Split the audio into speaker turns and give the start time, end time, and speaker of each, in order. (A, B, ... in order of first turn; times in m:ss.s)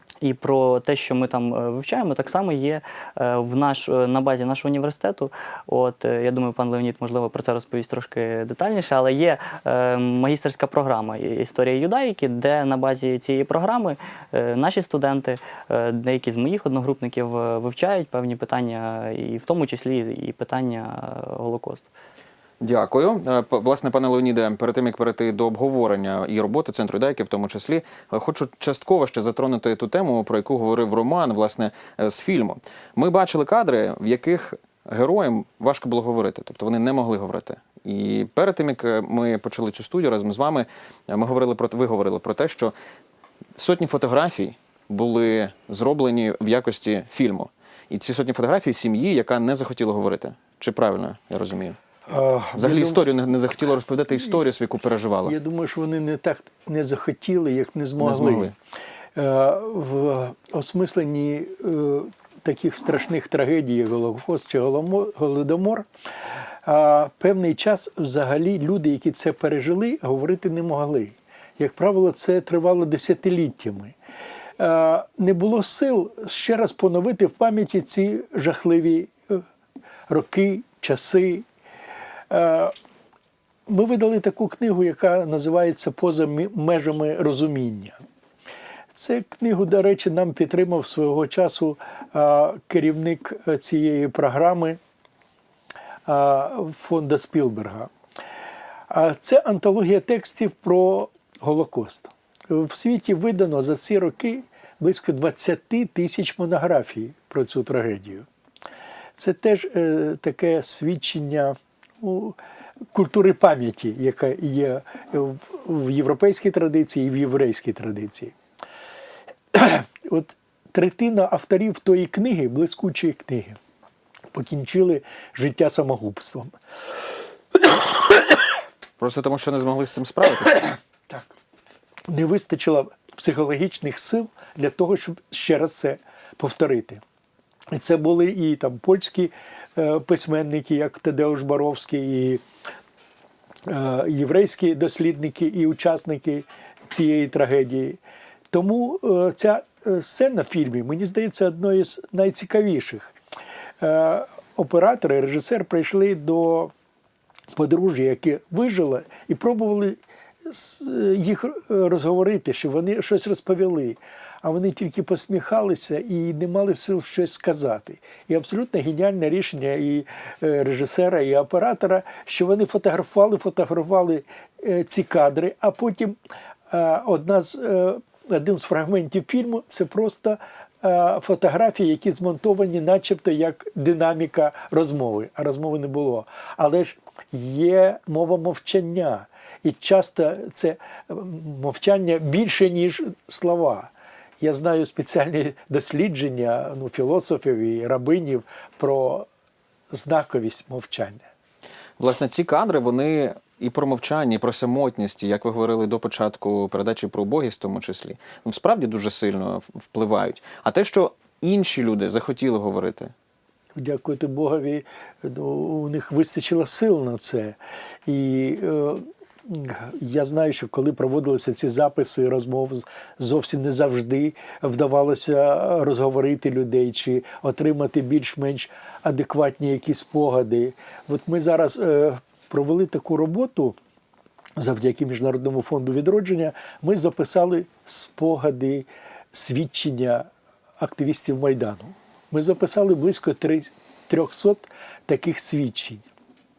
0:00.2-0:21.9 A
0:22.6-0:42.7 B
0:43.6-0:51.8 B
0:52.1-0:53.0 C
0:52.6-0:55.4 B
0:55.2-0:58.6 C
0:58.0-0:58.5 B
0:59.2-1:05.9 C
1:06.6-1:14.0 C
1:14.6-1:19.4 C
1:20.1-1:21.4 C
1:22.3-1:22.7 C
1:23.7-1:28.0 C
1:28.9-1:34.8 C
1:36.1-1:37.9 C
1:38.9-1:48.3 C
1:49.2-1:52.4 C
1:52.9-1:58.3 C
1:59.5-2:03.6 C
2:04.3-2:06.5 C
2:09.0-2:10.8 B
2:12.1-2:17.0 C
2:17.7-2:22.4 C
2:23.7-2:28.0 C
2:28.5-2:33.2 C
2:33.8-2:36.7 C
2:37.5-2:56.2 C
2:56.7-3:19.3 C
3:19.9-3:21.2 C
3:22.0-3:33.1 B
3:33.8-3:53.8 C
3:54.6-4:00.3 C
4:00.8-4:06.0 C